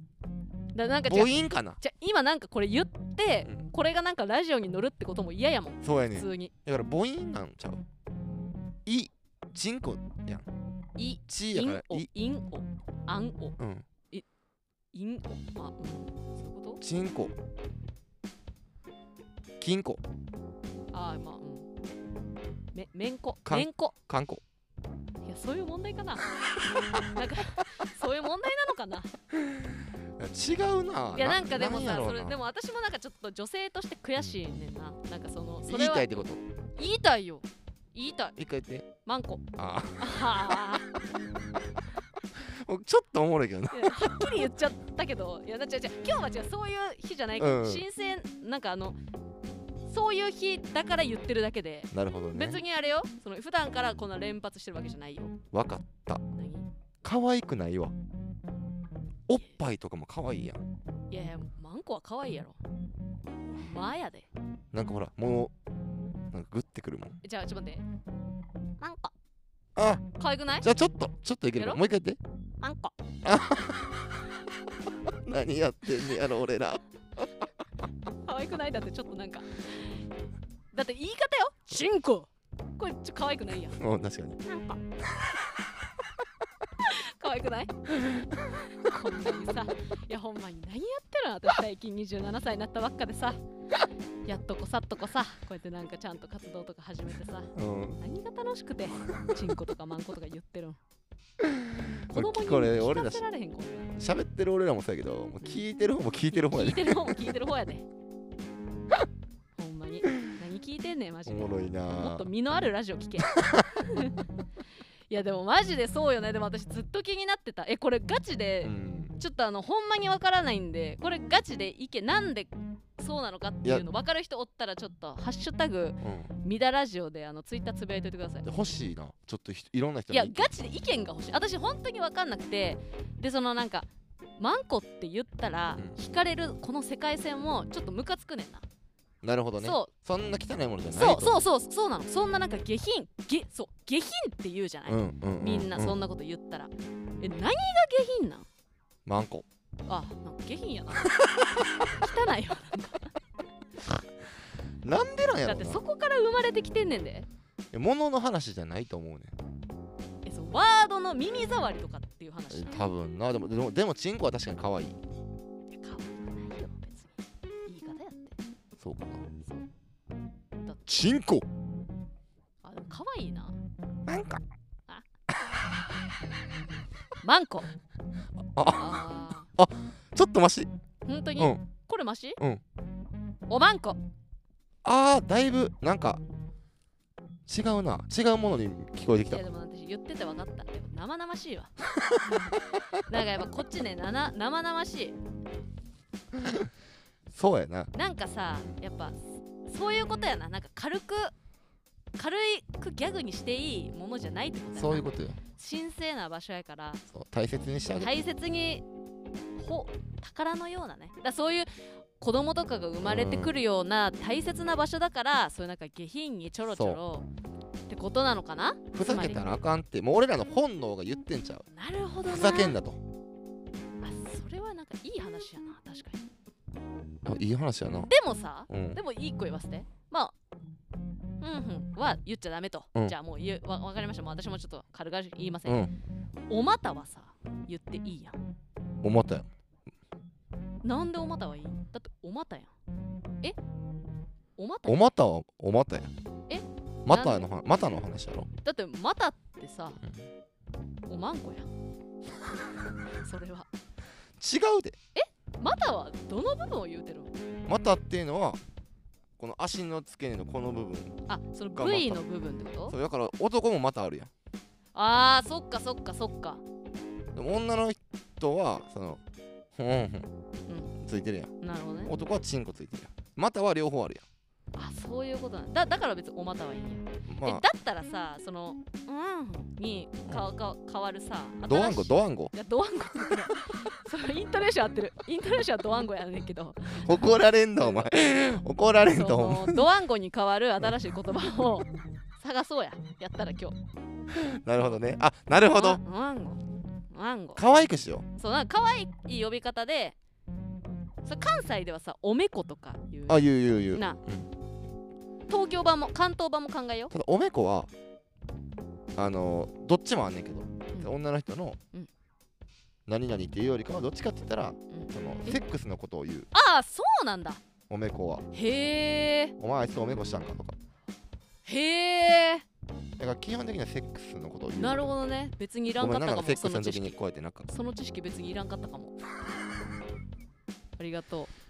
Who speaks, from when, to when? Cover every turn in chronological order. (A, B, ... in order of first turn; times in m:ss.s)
0:00.7-0:06.5 A
0:01.0-0:01.8 B
0:05.8-0:07.8 B
0:08.8-0:10.4 B
0:11.0-0:13.6 A
0:11.3-0:12.1 B
0:13.6-0:13.9 B
0:14.9-0:16.8 A
0:16.8-0:17.3 B
0:19.6-0:20.0 B
0:20.9-0:21.7 A
0:22.7-0:24.0 A
0:23.4-0:24.4 B
0:25.2-0:26.3 A
0:26.9-0:29.1 A
0:29.3-0:32.4 B
0:31.1-0:38.4 A
0:35.6-0:36.4 B
0:38.4-0:38.9 B
0:39.0-0:39.4 A
0:39.6-0:40.5 B
0:40.0-0:40.9 A
0:42.4-0:44.4 B
0:43.7-0:49.0 A
0:47.4-0:47.8 B
0:49.9-0:55.3 A
0:51.9-0:52.6 B
0:55.5-0:56.2 B
0:56.3-0:56.7 A
0:57.0-0:57.9 B
0:59.3-1:00.6 B
1:01.1-1:02.6 A
1:03.6-1:04.3 A
1:04.7-1:05.5 B
1:06.3-1:07.2 B
1:07.2-1:07.8 A
1:08.8-1:09.1 A
1:09.8-1:10.0 B
1:10.2-1:10.7 A
1:10.6-1:12.2 B
1:11.5-1:11.8 A
1:12.6-1:12.9 A
1:13.2-1:14.2 B
1:15.0-1:17.5 B
1:18.2-1:20.0 A
1:20.7-1:23.8 A
1:23.7-1:24.4 B
1:24.4-1:24.8 A
1:26.8-1:27.9 A
1:28.1-1:28.4 B
1:28.7-1:33.4 A
1:34.2-1:40.8 A
1:37.5-1:38.0 B
1:41.4-1:43.2 B
1:42.1-1:43.9 A
1:43.9-1:47.2 B
1:46.3-1:47.8 A
1:49.6-1:54.2 A
1:51.2-1:52.3 B
1:53.4-1:53.6 B
1:55.1-2:08.5 A
1:58.6-1:59.2 B
2:06.0-2:06.3 B
2:08.4-2:10.5 B
2:10.1-2:18.6 A
2:19.2-2:21.4 B
2:19.6-2:19.9 A
2:20.9-2:28.5 A
2:24.9-2:26.0 B
2:29.0-2:29.5 B
2:29.9-2:31.2 A
2:31.1-2:31.7 B
2:31.8-2:33.1 A
2:34.8-2:35.8 B
2:35.4-2:37.3 A
2:37.7-2:39.3 B
2:40.2-2:42.9 A
2:42.5-2:45.0 B
2:45.7-2:48.3 A
2:48.8-2:49.3 B
2:50.8-2:51.5 B
2:52.6-2:53.6 A
2:54.0-2:54.4 B
2:57.2-2:57.7 A
2:58.5-3:00.7 B
2:58.7-2:59.5 A
3:01.0-3:02.4 A
3:01.4-3:01.6 B
3:03.5-3:04.0 A
3:04.8-3:06.2 B
3:07.5-3:09.4 B
3:09.3-3:15.2 A
3:11.9-3:12.3 B
3:16.3-3:16.7 B
3:17.3-3:17.9 B
3:17.9-3:21.3 A
3:22.2-3:27.0 A
3:24.7-3:25.4 B
3:27.1-3:28.1 B
3:28.0-3:28.8 A
3:29.6-3:37.2 A
3:33.0-3:33.6 B
3:36.7-3:37.0 B
3:37.9-3:39.5 A
3:38.9-3:41.7 B
3:41.7-3:42.8 A
3:42.2-3:43.0 B
3:44.0-3:46.2 A
3:47.2-3:48.1 B
3:48.1-3:50.3 A
3:48.7-3:49.0 B
3:51.4-3:55.8 A
3:55.7-3:55.9 B
3:56.5-3:58.4 A
3:59.0-3:59.5 B
4:00.8-4:02.7 A
4:04.6-4:05.1 A
4:04.8-4:06.1 B
4:06.5-4:07.5 A
4:07.0-4:08.5 B
4:08.6-4:10.0 A
4:11.1-4:11.7 A
4:13.2-4:13.7 A
4:14.4-4:15.0 B
4:15.2-4:17.3 A
4:17.7-4:18.6 B
4:19.4-4:21.2 B
4:21.3-4:23.0 A
4:21.8-4:22.2 B
4:22.9-4:24.3 B
4:24.9-4:26.6 A
4:27.4-4:29.2 B
4:29.8-4:30.3 B
4:30.7-4:30.9 A
4:31.0-4:31.5 B
4:31.6-4:32.1 A
4:32.0-4:34.2 B
4:34.8-4:48.1 A
4:37.3-4:37.6 B
4:41.6-4:42.5 B
4:47.0-4:49.9 B
4:49.1-4:53.8 A
4:54.3-4:56.0 B
4:55.6-4:56.6 A
4:57.1-4:57.7 A
4:57.6-4:58.2 B
4:58.3-5:00.2 A
5:01.2-5:04.2 A
5:03.3-5:04.5 B
5:05.5-5:07.1 A
5:07.1-5:07.9 B
5:09.2-5:11.8 B
5:13.1-5:16.5 B
5:14.9-5:15.6 A
5:16.5-5:17.6 A
5:17.9-5:18.4 B
5:18.5-5:19.5 A
5:19.6-5:20.8 B
5:21.6-5:22.6 A
5:23.2-5:25.1 B
5:24.7-5:29.1 A
5:26.0-5:27.7 B
5:31.0-5:31.5 A